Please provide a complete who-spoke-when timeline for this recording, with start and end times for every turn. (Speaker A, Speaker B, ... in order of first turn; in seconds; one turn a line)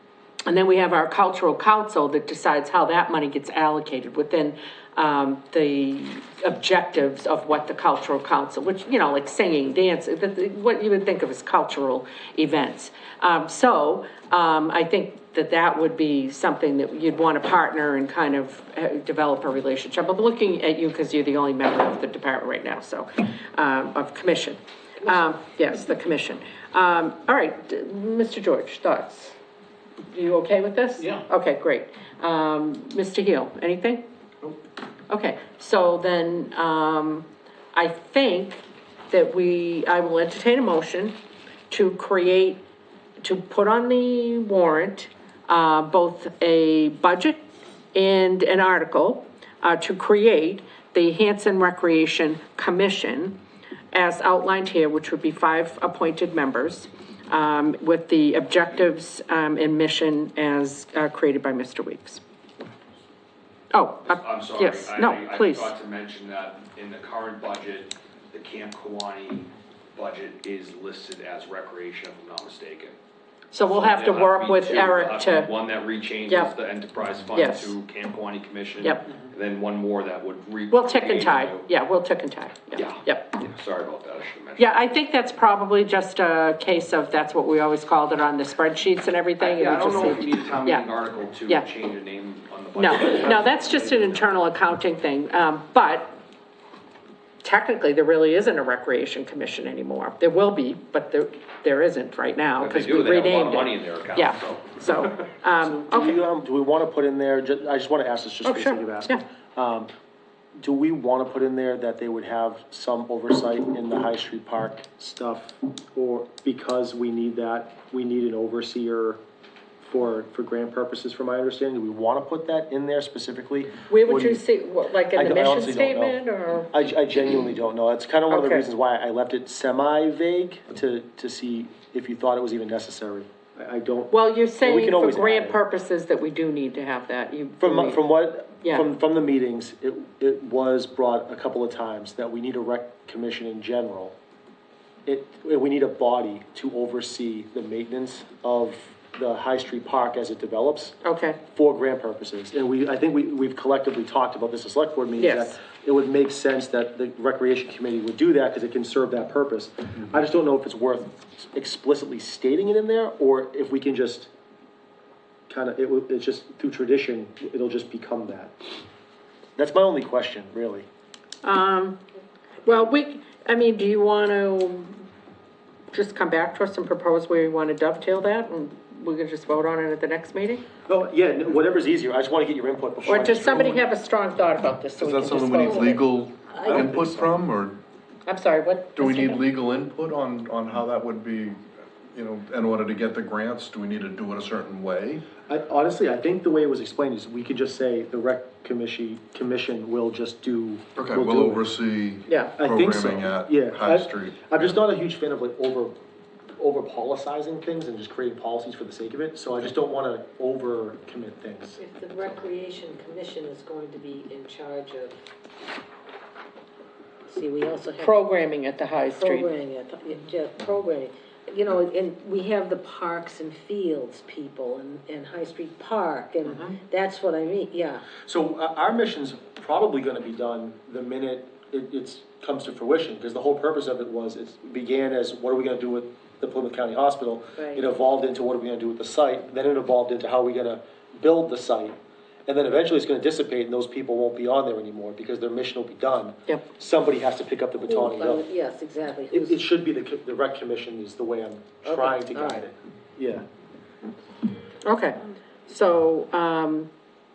Speaker A: 0.5-29.4
Speaker A: 30.1-34.0
Speaker A: 35.1-41.1
Speaker A: 41.7-42.6
Speaker A: 43.2-47.4
Speaker A: 47.9-53.4
Speaker A: 53.9-62.2
Speaker A: 63.7-65.7
Speaker B: 64.0-72.9
Speaker A: 73.5-75.5
Speaker B: 73.6-81.7
Speaker A: 76.3-76.5
Speaker A: 77.3-77.7
Speaker A: 80.7-83.3
Speaker B: 82.7-84.7
Speaker A: 84.6-90.9
Speaker B: 89.4-94.3
Speaker A: 92.7-96.2
Speaker A: 97.4-106.2
Speaker B: 102.6-105.1
Speaker C: 105.6-109.9
Speaker A: 108.4-109.2
Speaker C: 110.6-119.2
Speaker C: 119.8-124.4
Speaker A: 123.9-126.7
Speaker C: 125.1-126.2
Speaker C: 126.7-135.6
Speaker A: 128.3-128.7
Speaker A: 134.1-138.0
Speaker C: 137.6-144.1
Speaker C: 145.1-151.0
Speaker A: 151.0-151.4
Speaker C: 151.5-164.3
Speaker A: 155.2-155.6
Speaker C: 165.5-168.5
Speaker C: 169.6-170.9
Speaker A: 171.4-172.0
Speaker A: 172.6-175.0
Speaker A: 175.9-180.6
Speaker C: 180.9-183.8
Speaker A: 183.1-186.0
Speaker D: 185.0-187.8
Speaker E: 186.5-186.8
Speaker C: 186.6-187.3
Speaker A: 188.2-189.4
Speaker D: 188.9-191.6
Speaker D: 192.1-195.3
Speaker C: 195.5-201.7
Speaker D: 200.9-204.8
Speaker A: 202.3-202.5
Speaker C: 202.5-206.0
Speaker C: 206.6-211.8
Speaker E: 211.8-215.1
Speaker E: 217.3-218.3
Speaker A: 217.9-219.5
Speaker E: 219.1-228.0
Speaker C: 228.2-241.9
Speaker C: 242.5-248.4
Speaker E: 247.8-249.6
Speaker C: 249.3-253.4
Speaker E: 251.8-252.7
Speaker A: 254.8-256.9